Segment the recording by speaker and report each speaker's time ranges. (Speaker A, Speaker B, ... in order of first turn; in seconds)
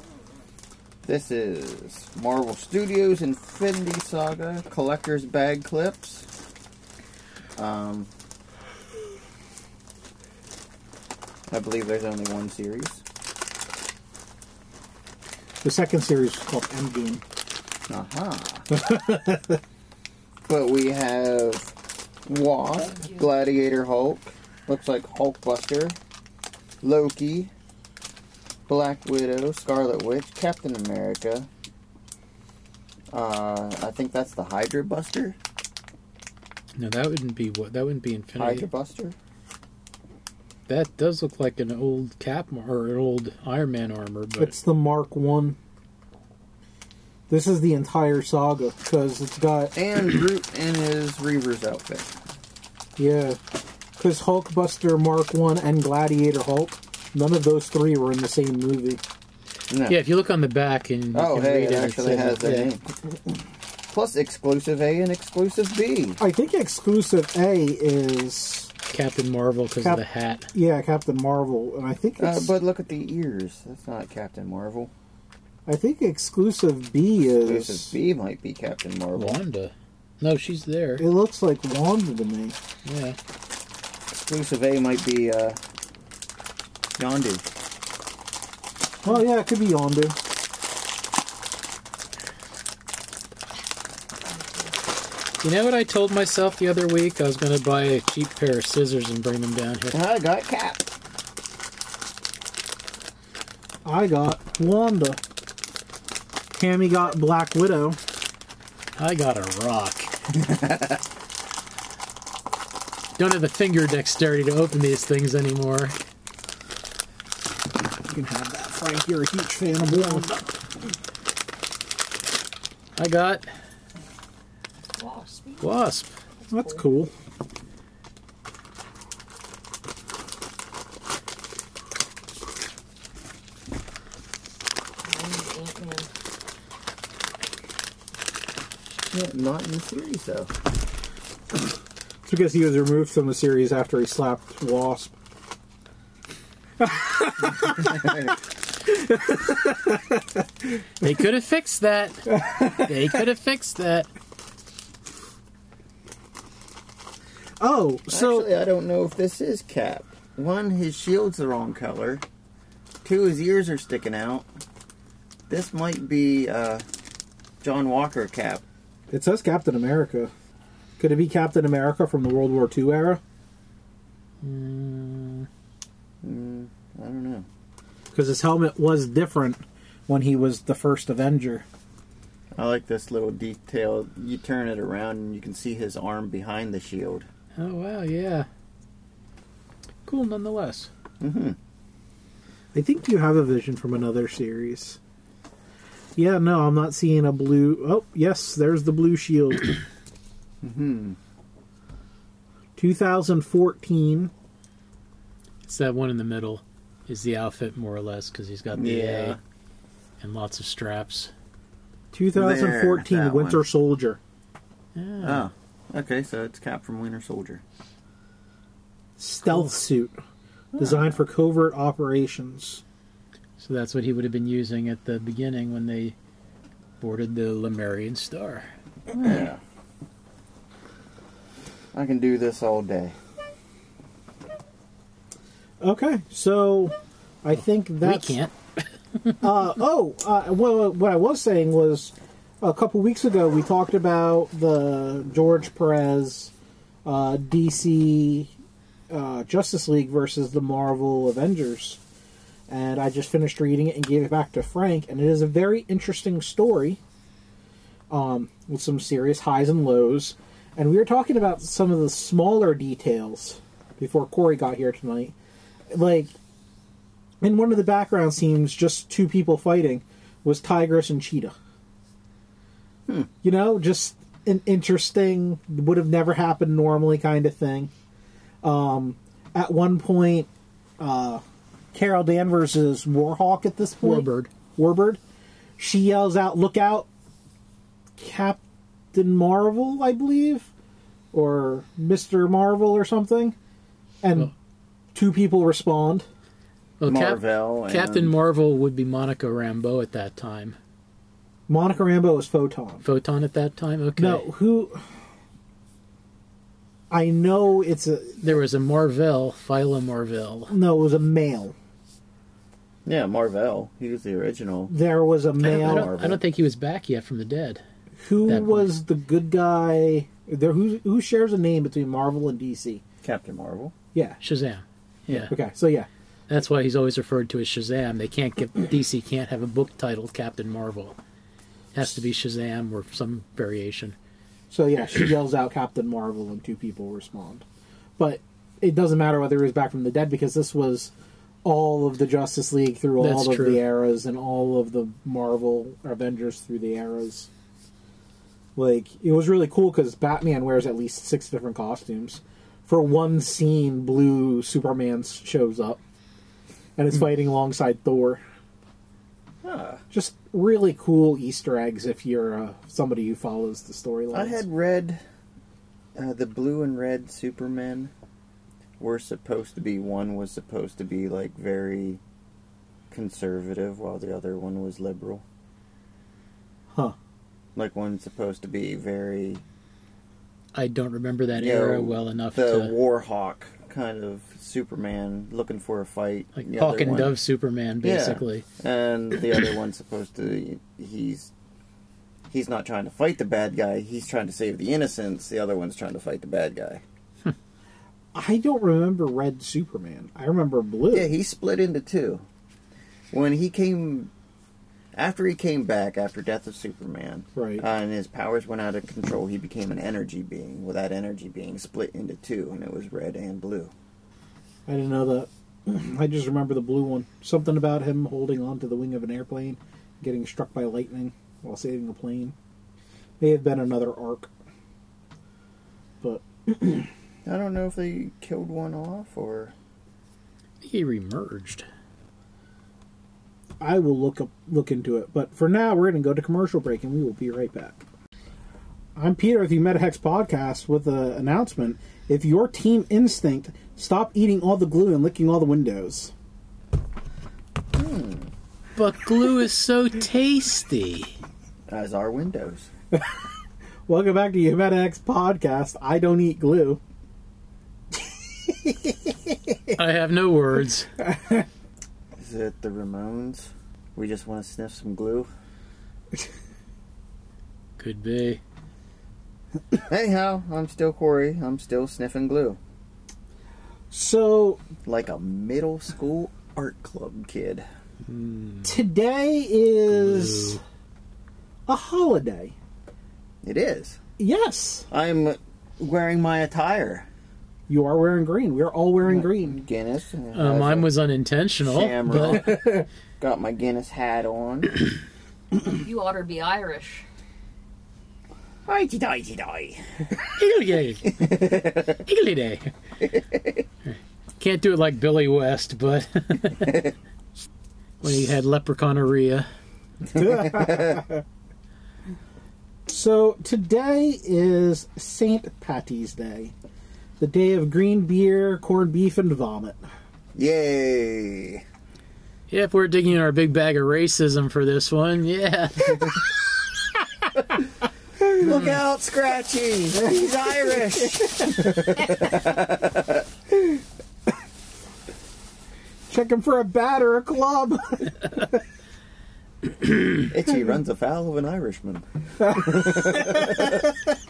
Speaker A: 1.0-6.3, 7.5-8.1, 11.5-13.0, 17.9-18.7, 20.5-21.7, 22.2-26.0, 26.8-27.5, 28.7-31.5, 33.1-35.4, 38.4-39.1, 49.7-52.1, 59.7-60.0, 61.1-62.9, 63.9-66.2, 72.2-74.9, 77.4-79.4, 84.2-85.6, 87.0-87.4, 99.9-100.8, 110.4-111.0, 139.1-140.5, 147.7-148.3, 158.1-162.2, 163.0-164.5, 165.5-166.8, 167.6-168.6, 176.2-177.5, 182.5-187.3, 191.2-191.6, 200.6-201.2, 208.7-209.4, 212.3-213.6, 215.2-217.6, 229.1-229.6, 231.9-233.1, 297.0-298.3, 313.1-314.9, 315.6-316.4, 323.2-323.9, 359.6-360.0, 364.3-365.2, 366.1-368.1, 369.0-372.2, 373.1-375.4, 377.8-379.6, 381.5-387.3, 388.0-391.5, 392.5-397.0, 401.1-402.4, 403.3-404.3, 405.1-413.9, 427.4-429.7, 447.9-448.5, 451.9-452.9, 462.4-465.5, 470.0-472.8, 475.1-477.8, 483.6-484.2, 485.1-487.2, 489.3-491.1, 491.8-492.9, 493.4-495.0, 498.9-500.4, 501.2-502.2, 503.2-503.8, 506.8-507.1, 510.3-511.2, 520.5-521.8, 528.5-533.5, 540.5-544.0
Speaker B: 15.6-17.2, 18.7-19.6, 44.4-45.6, 47.3-49.7, 53.0-53.4, 54.0-59.0, 66.2-68.7, 69.8-72.5, 75.7-78.0, 81.0-82.6, 89.0-90.2, 103.8-105.2, 106.5-108.0, 118.0-120.3, 126.5-127.1, 142.2-145.1, 146.8-148.2, 148.8-150.4, 152.3-153.2, 157.6-158.5, 169.1-170.3, 171.0-173.2, 178.1-181.6, 192.7-195.0, 196.2-199.8, 202.8-204.3, 212.1-214.2, 219.2-220.2, 220.8-222.8, 235.8-238.4, 239.4-246.5, 247.0-248.5, 249.1-252.0, 252.7-257.0, 258.1-265.3, 265.9-266.3, 267.4-271.5, 273.4-277.9, 278.6-281.4, 281.9-285.2, 285.8-287.1, 288.2-288.6, 289.1-290.7, 291.3-293.6, 294.2-294.5, 295.1-296.2, 301.7-303.0, 304.2-305.0, 307.1-308.6, 310.7-311.7, 314.9-316.1, 318.2-323.0, 324.1-324.4, 325.5-326.1, 334.7-337.6, 338.2-341.1, 341.6-347.5, 348.8-356.0, 357.0-358.4, 360.1-364.6, 398.3-401.3, 407.6-407.8, 414.9-422.5, 423.4-424.5, 426.2-427.1, 433.8-438.0, 439.1-446.3, 453.1-453.4, 454.1-457.0, 458.2-459.9, 461.2-461.6, 474.1-474.8, 478.8-480.8, 481.9-482.7, 484.4-485.1, 487.9-489.8, 492.5-493.0, 510.3-511.4, 513.1-516.7, 517.4-520.0, 531.4-532.1, 536.3-538.8, 542.8-544.1
Speaker C: 22.8-23.3, 94.2-94.8, 125.0-125.8, 126.4-126.8, 135.0-136.1, 496.0-497.2
Speaker D: 36.8-38.6, 40.7-44.5, 59.9-62.7, 68.9-70.5, 79.1-81.0, 82.8-83.2, 95.4-100.0, 109.0-110.1, 113.2-116.0, 123.0-123.5, 125.6-126.1, 151.0-154.1, 174.4-175.5, 187.6-188.5, 190.1-190.9, 205.7-209.4, 210.2-211.3, 214.9-215.4, 223.6-226.1, 227.0-228.7, 238.0-238.5, 239.2-239.4, 284.0-284.5, 297.0-300.8, 303.0-304.5, 308.4-310.7, 315.6-317.8, 318.4-318.9, 324.4-325.5, 326.5-331.2, 331.9-334.1, 343.2-343.8, 380.7-382.9, 386.6-388.6, 430.8-431.8, 448.9-451.3, 459.9-461.1, 468.0-468.6, 478.2-479.0, 480.2-480.8, 490.5-492.8, 500.6-501.4, 502.2-502.9, 504.1-506.9, 508.2-509.7, 522.7-526.4